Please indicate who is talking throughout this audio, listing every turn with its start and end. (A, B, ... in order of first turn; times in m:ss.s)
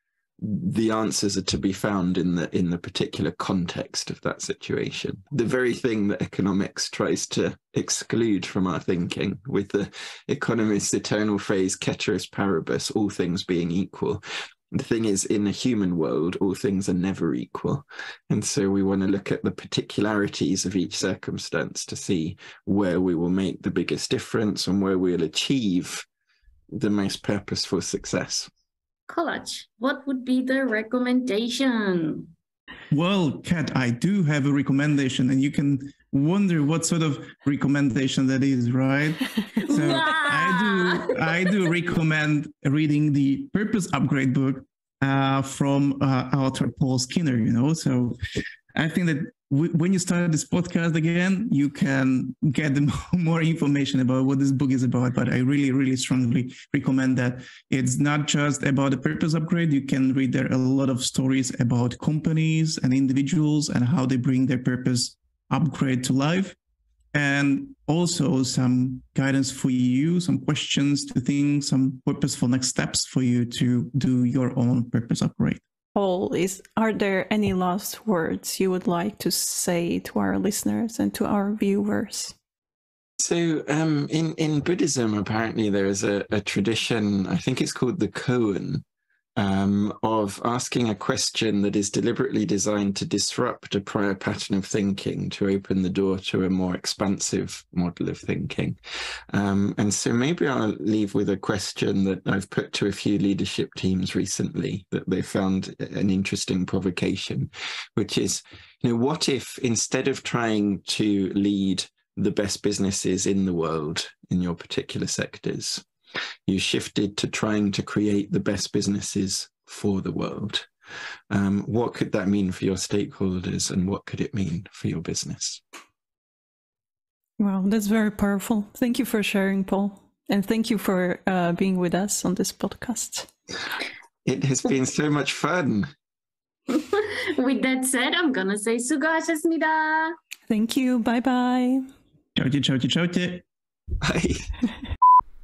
0:00.4-0:26.0 A
0:26.7-0:28.5 A
0:29.1-0:32.3 B
0:32.9-0:48.2 C
0:39.7-0:41.5 B
0:48.7-1:06.6 C
1:07.1-1:15.6 C
1:15.9-1:22.3 D
1:23.2-1:28.8 A
1:29.4-1:38.8 A
1:39.3-1:55.8 A
1:56.5-2:00.7 A
2:01.3-2:05.6 A
2:07.4-2:13.3 D
2:14.2-2:15.9 A
2:16.7-2:20.2 B
2:20.5-2:21.9 D
2:22.4-2:23.4 C
2:24.0-2:24.5 A